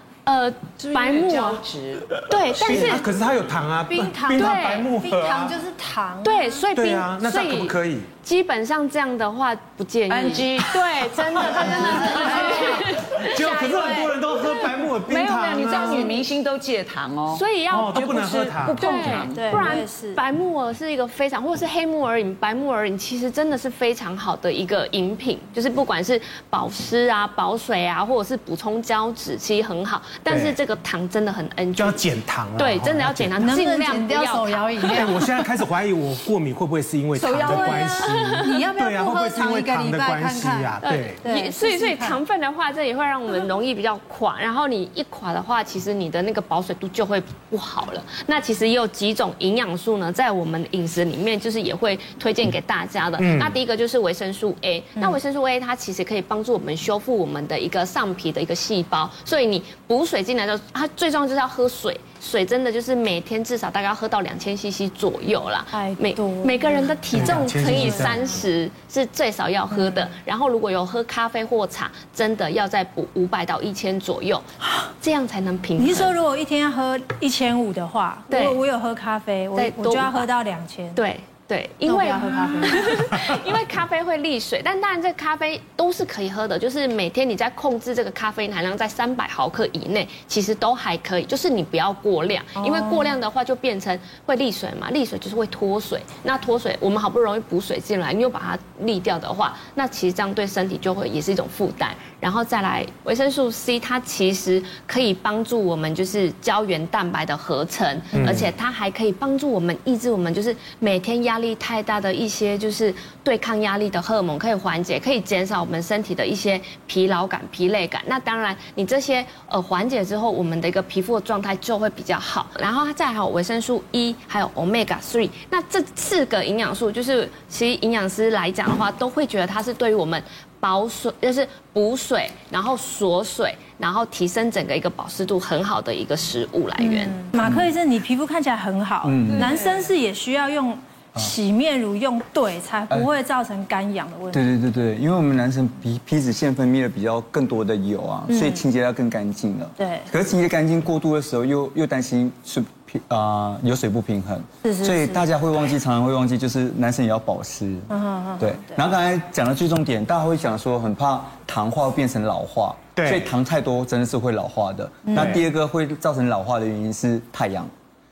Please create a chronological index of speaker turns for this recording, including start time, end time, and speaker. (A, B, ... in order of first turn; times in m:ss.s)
0:00.3-0:01.6 A
0:00.8-0:02.1 B
0:02.3-0:03.0 A
0:02.6-0:05.6 C
0:02.6-0:03.0 D
0:03.9-0:06.6 D
0:04.5-0:04.9 A
0:06.2-0:14.7 A
0:06.7-0:08.1 C
0:10.1-0:10.7 B
0:10.6-0:16.2 C
0:11.2-0:12.9 D
0:11.5-0:12.6 B
0:13.5-0:14.1 D
0:15.0-0:19.8 B
0:17.3-0:17.9 A
0:17.7-0:19.3 C
0:18.9-0:35.0 A
0:19.1-0:20.2 D
0:30.3-0:30.6 C
0:31.8-0:33.4 C
0:33.4-0:35.4 D
0:34.8-0:41.3 C
0:37.2-0:42.2 D
0:38.1-0:38.4 A
0:40.8-1:16.1 A
0:53.2-0:53.6 C
1:05.7-1:08.4 D
1:07.1-1:08.5 C
1:09.7-1:10.1 D
1:15.8-1:21.0 D
1:18.3-1:18.6 A
1:19.5-1:20.3 A
1:21.0-2:17.3 A
1:21.9-1:23.4 D
1:32.6-1:33.1 D
1:48.1-1:48.5 C
2:16.8-2:24.4 D
2:17.4-2:17.7 E
2:19.0-2:19.6 E
2:24.3-2:47.7 E
2:28.3-2:28.6 D
2:29.8-2:30.1 D
2:34.6-2:35.2 D
2:37.9-2:38.8 D
2:43.0-2:43.3 C